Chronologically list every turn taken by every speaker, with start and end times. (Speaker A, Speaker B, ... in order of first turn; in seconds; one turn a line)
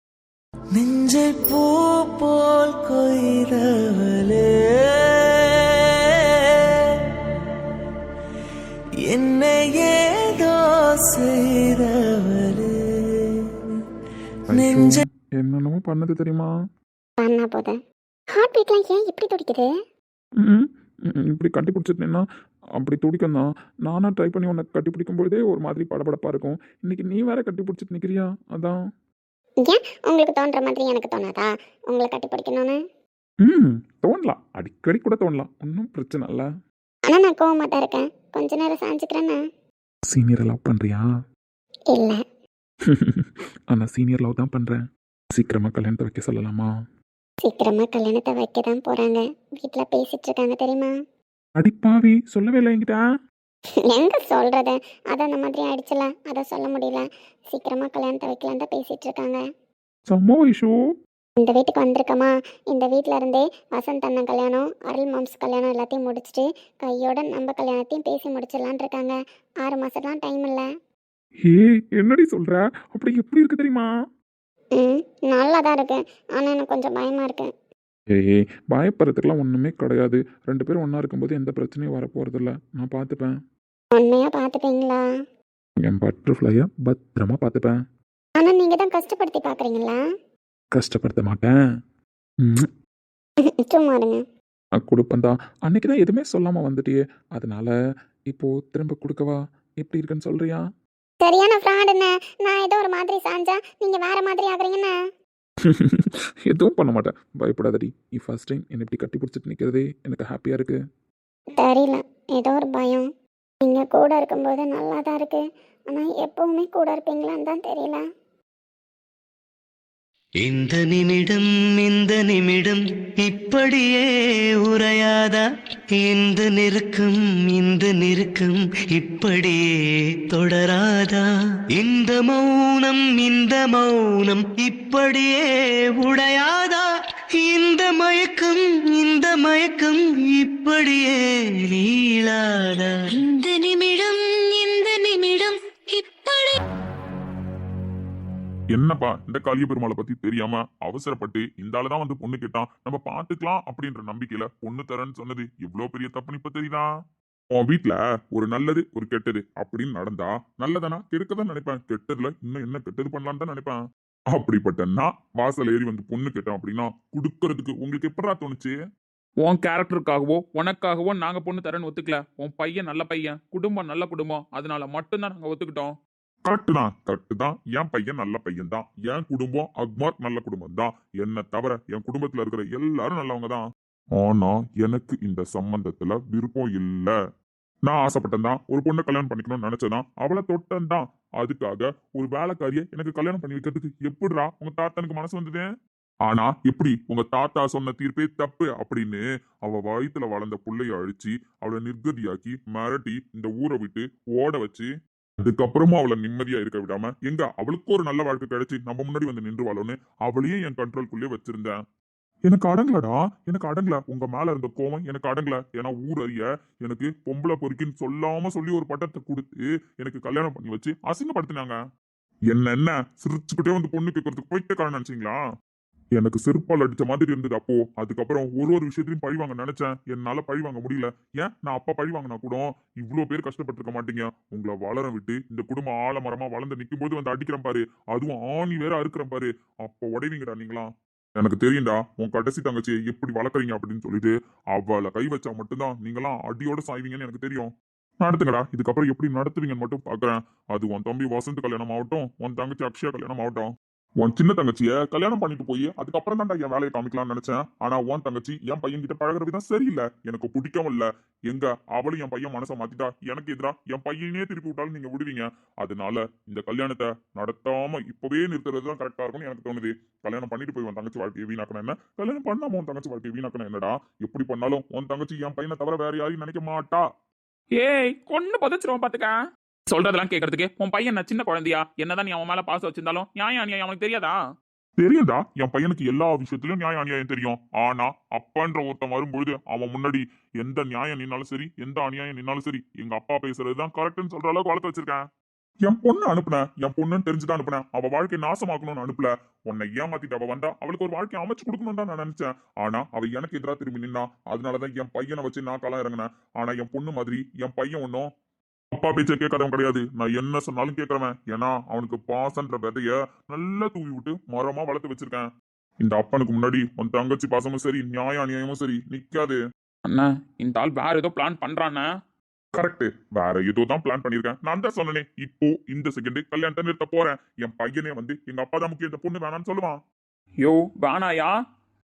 Speaker A: 0.8-4.5
Speaker A: 5.1-5.4
Speaker A: 9.1-12.7
Speaker A: 14.5-15.0
Speaker B: 17.2-17.8
Speaker B: 18.4-19.7
Speaker C: 24.0-25.2
Speaker C: 26.1-28.2
Speaker B: 29.7-32.8
Speaker C: 33.5-36.4
Speaker B: 37.1-39.4
Speaker C: 40.1-41.0
Speaker B: 41.9-42.2
Speaker C: 43.7-44.8
Speaker C: 45.4-46.7
Speaker B: 47.4-50.9
Speaker C: 51.6-53.0
Speaker B: 53.9-59.4
Speaker C: 60.1-60.7
Speaker B: 61.4-70.7
Speaker C: 72.0-73.9
Speaker B: 74.8-77.5
Speaker C: 78.2-83.3
Speaker B: 84.0-85.0
Speaker C: 85.9-87.7
Speaker B: 88.4-90.0
Speaker C: 90.8-91.5
Speaker B: 93.7-94.2
Speaker C: 94.9-97.7
Speaker C: 98.3-100.6
Speaker B: 101.2-104.9
Speaker C: 106.5-110.7
Speaker B: 111.6-113.0
Speaker B: 113.7-118.0
Speaker A: 120.4-124.0
Speaker A: 124.7-125.4
Speaker A: 126.0-129.6
Speaker A: 130.3-131.2
Speaker A: 131.8-135.4
Speaker A: 136.0-136.8
Speaker A: 137.4-141.2
Speaker A: 141.7-142.9
Speaker D: 143.2-146.5
Speaker E: 148.7-156.9
Speaker E: 157.6-163.8
Speaker E: 164.3-168.8
Speaker C: 169.4-175.9
Speaker E: 176.4-183.6
Speaker E: 184.2-187.1
Speaker E: 187.9-195.7
Speaker E: 196.3-204.9
Speaker E: 205.4-211.8
Speaker E: 212.5-221.8
Speaker E: 222.5-225.4
Speaker E: 226.2-253.7
Speaker E: 254.2-277.1
Speaker C: 277.8-279.3
Speaker C: 279.9-284.4
Speaker E: 285.0-295.2
Speaker E: 295.9-308.3
Speaker E: 308.9-315.5
Speaker E: 316.0-319.6
Speaker C: 320.1-322.1
Speaker E: 322.8-330.0
Speaker C: 330.6-331.5